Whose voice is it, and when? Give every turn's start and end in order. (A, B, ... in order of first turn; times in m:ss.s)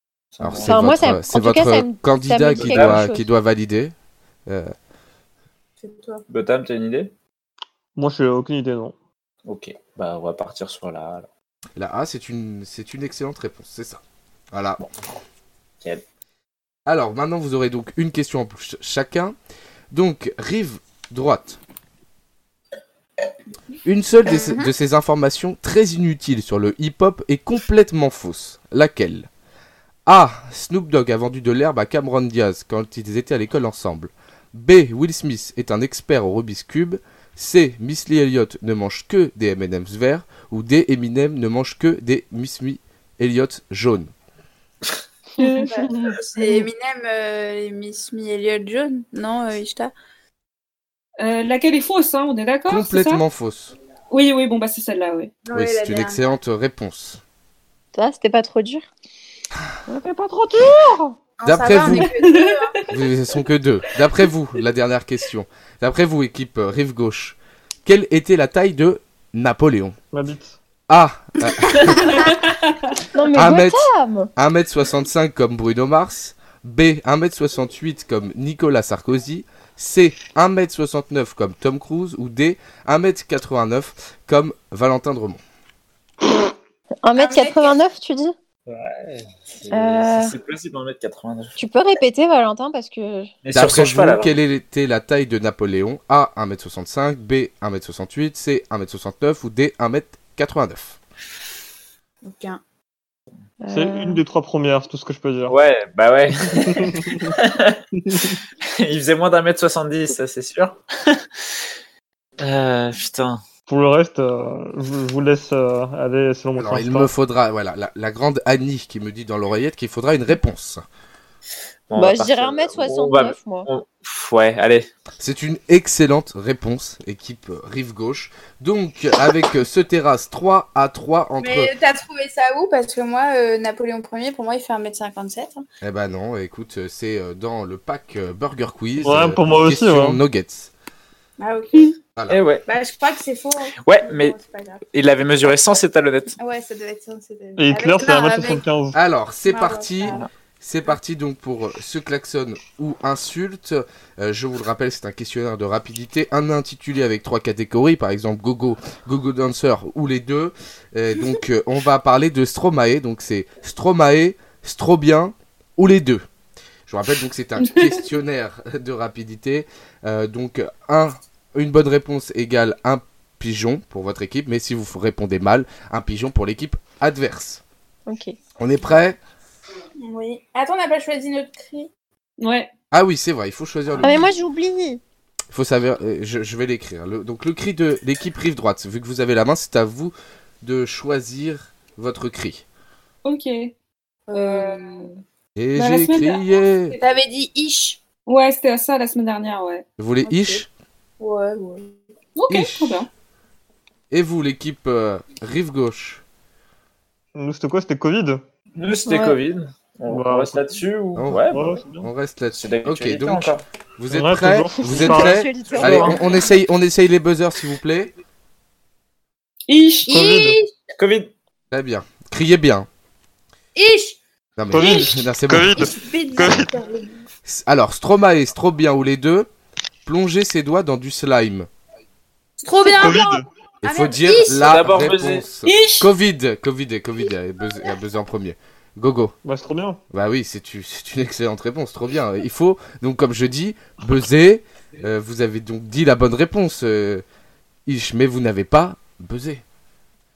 0:00.3-0:01.2 A
0:00.4-0:03.9 B
0:00.6-0:03.3 C
0:02.6-0:03.0 A
0:04.5-0:04.7 B
0:05.8-0:06.2 D
0:06.3-0:07.1 A
0:08.0-0:09.0 E
0:09.5-0:11.3 A
0:11.8-0:14.0 B
0:14.5-0:14.8 B
0:16.9-0:19.3 B
0:19.9-0:21.6 B
0:23.8-0:29.3 B
0:24.3-0:24.7 D
0:30.1-0:44.1 B
0:45.4-0:46.7 C
0:45.4-0:45.7 F
0:45.6-0:49.9 D
0:51.2-0:53.2 F
0:52.7-0:53.7 B
0:54.1-0:55.3 F
0:55.4-0:56.2 D
0:55.5-0:57.2 B
0:57.9-0:58.9 C
0:59.9-1:00.9 E
1:00.5-1:00.9 F
1:01.4-1:02.8 D
1:01.4-1:02.1 B
1:01.8-1:02.8 F
1:02.9-1:10.0 B
1:10.1-1:10.6 E
1:10.9-1:12.3 B
1:12.0-1:12.8 F
1:13.1-1:14.3 C
1:13.3-1:25.4 B
1:27.0-1:28.4 C
1:27.2-1:27.8 D
1:28.7-1:31.6 A
1:29.7-1:30.4 C
1:31.6-1:33.3 C
1:33.4-1:34.4 A
1:33.5-1:41.0 B
1:42.2-1:42.6 D
1:43.6-1:44.2 C
1:43.7-1:45.5 E
1:45.5-1:47.8 A
1:46.5-1:47.4 E
1:47.9-1:48.4 E
1:48.8-1:51.6 A
1:52.4-1:53.4 A
1:53.7-1:57.1 E
1:56.6-2:00.8 B
2:01.9-2:04.9 A
2:01.9-2:03.7 C
2:05.2-2:11.7 B
2:11.4-2:15.6 D
2:15.8-2:20.7 B
2:19.0-2:20.2 E
2:21.4-2:22.0 D
2:22.2-2:22.4 B
2:22.3-2:22.6 A
2:22.7-2:24.8 D
2:23.8-2:24.4 A
2:24.9-2:26.4 A
2:26.4-2:28.6 D
2:27.6-2:29.0 E
2:28.9-2:46.3 B
2:29.5-2:30.2 D
2:46.9-2:57.6 B
2:47.6-2:48.0 F
2:58.1-2:58.4 C
2:58.6-2:59.2 B
3:00.0-3:01.9 D
3:02.4-3:02.7 F
3:02.9-3:04.3 B
3:04.0-3:05.0 C
3:05.5-3:12.6 B
3:13.2-3:13.7 F
3:14.3-3:15.1 D
3:14.3-3:15.2 F
3:15.6-3:17.0 B
3:15.8-3:16.9 F
3:17.0-3:18.0 D
3:18.3-3:19.8 F
3:20.0-3:20.7 B
3:20.2-3:20.6 D
3:21.2-3:22.0 D
3:22.4-3:23.1 F
3:22.5-3:23.0 B
3:24.1-3:26.2 B
3:27.4-3:28.4 E
3:28.8-3:31.8 A
3:29.1-3:29.4 C
3:30.1-3:30.6 E
3:31.2-3:38.1 B
3:31.5-3:32.1 E
3:32.5-3:33.6 A
3:34.1-3:35.4 E
3:34.8-3:36.3 C
3:35.7-3:36.2 A
3:39.7-3:40.2 F
3:40.1-3:40.8 D
3:40.1-3:40.6 E
3:41.0-3:41.3 A
3:41.7-3:42.9 B
3:43.8-3:44.2 D
3:44.6-3:45.9 B
3:44.7-3:46.7 E
3:45.8-3:47.2 D
3:47.5-3:49.5 B
3:50.0-3:51.7 B
3:52.6-3:54.7 D
3:52.8-3:53.5 E
3:53.8-3:59.4 B
3:54.5-3:55.5 A
3:55.6-3:56.1 F
3:59.4-4:00.0 E
4:00.1-4:07.2 B
4:07.9-4:09.6 B